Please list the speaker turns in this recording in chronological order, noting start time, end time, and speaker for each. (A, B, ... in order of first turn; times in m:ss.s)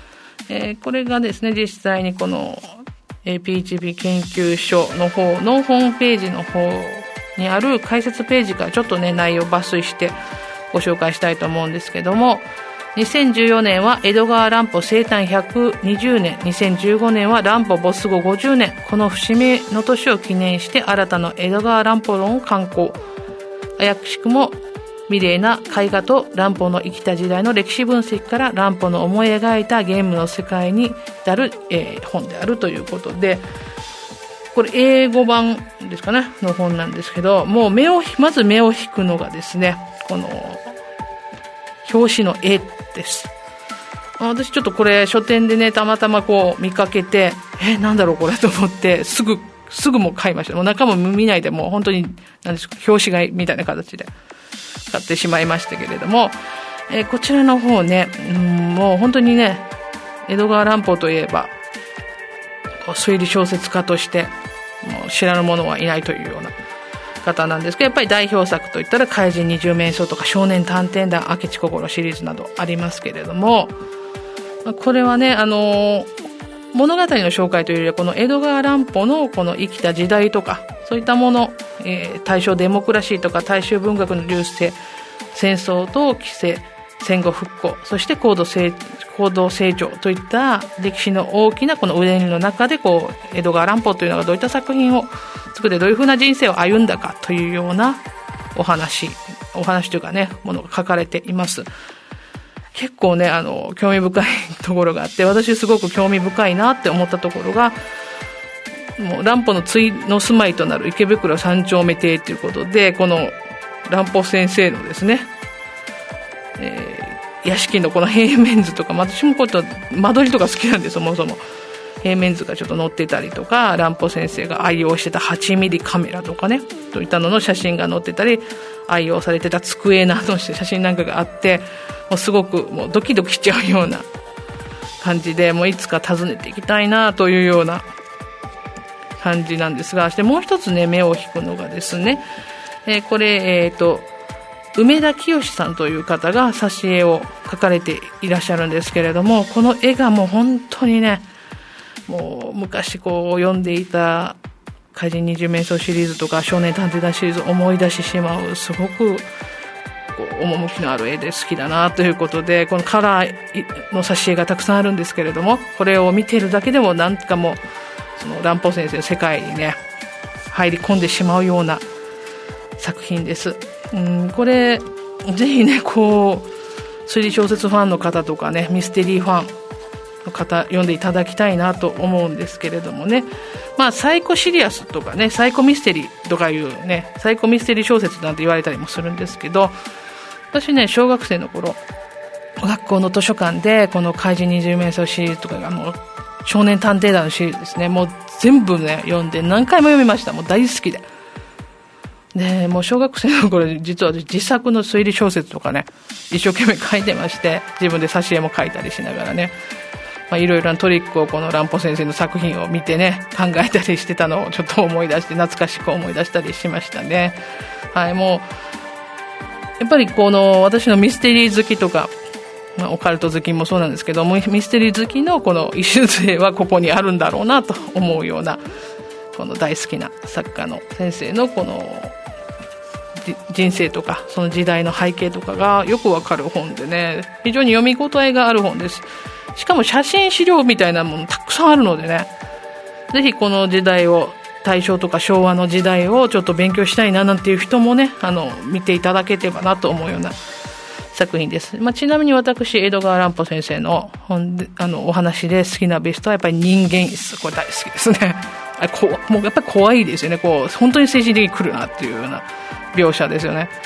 0:00.5-0:10.2 A
0:10.7-0:23.0 A
0:23.8-0:24.6 A
0:25.1-0:33.4 A
0:34.5-0:40.7 A
0:41.8-0:43.3 A
0:44.2-0:54.1 A
0:54.9-0:56.4 A
0:56.9-0:59.7 A
1:00.3-1:01.5 A
1:02.8-1:06.5 A
1:07.2-1:13.8 A
1:14.6-1:16.1 A
1:16.7-1:24.8 A
1:25.3-1:38.0 A
1:38.5-1:41.7 A
1:42.7-1:47.8 A
1:49.0-1:55.3 A
1:56.6-2:01.4 A
2:02.0-2:14.1 A
2:15.0-2:17.8 A
2:19.2-2:22.2 A
2:22.8-2:24.1 A
2:24.7-2:31.2 A
2:32.1-2:34.4 A
2:34.9-2:39.3 A
2:40.1-2:47.6 A
2:48.2-2:49.8 A
2:50.5-2:51.8 A
2:52.8-2:56.5 A
2:57.0-2:59.5 A
3:00.2-3:09.7 A
3:10.5-3:11.8 A
3:12.6-3:21.0 A
3:22.3-3:29.5 A
3:30.3-3:37.4 A
3:37.9-3:38.5 A
3:39.8-3:42.1 A
3:42.8-3:48.6 A
3:49.3-3:52.2 A
3:53.2-4:02.3 A
4:03.1-4:10.4 A
4:11.1-4:23.7 A